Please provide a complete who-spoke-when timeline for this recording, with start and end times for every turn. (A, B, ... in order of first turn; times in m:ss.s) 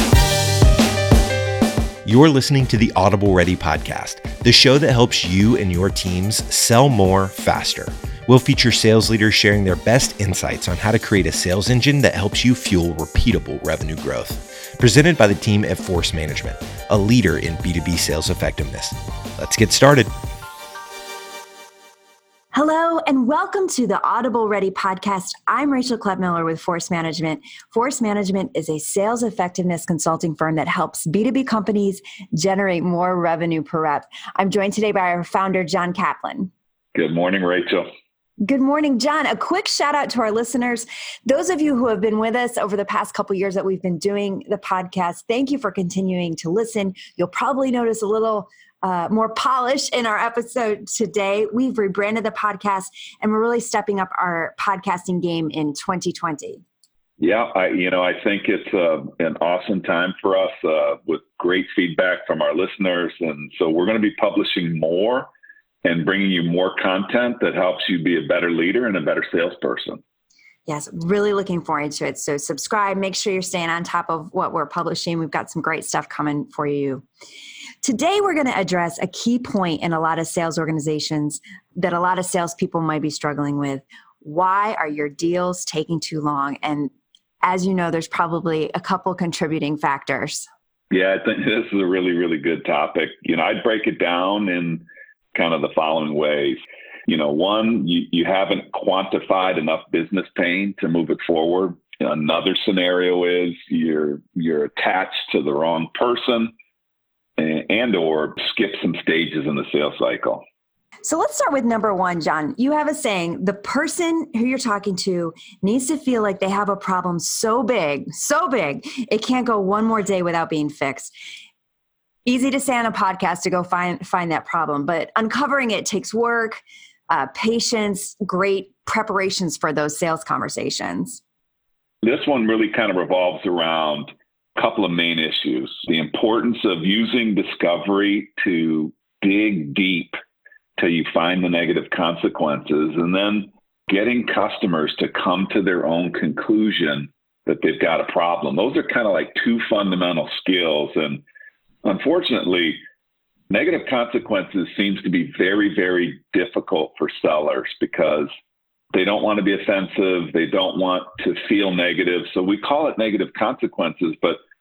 0:02.0-0:20.1 A
0:22.5-0:36.5 B
0:37.0-0:37.9 C
0:38.4-0:56.6 B
0:57.2-1:05.3 C
1:05.8-1:10.0 C
1:10.7-1:17.0 B
1:17.8-1:26.9 B
1:27.4-1:30.5 B
1:30.9-1:46.5 C
1:47.4-1:50.4 C
1:51.0-2:01.1 B
2:02.3-2:11.2 B
2:12.0-2:20.2 C
2:20.8-2:31.2 C
2:31.8-2:32.8 C
2:33.5-2:38.3 C
2:38.9-2:44.4 C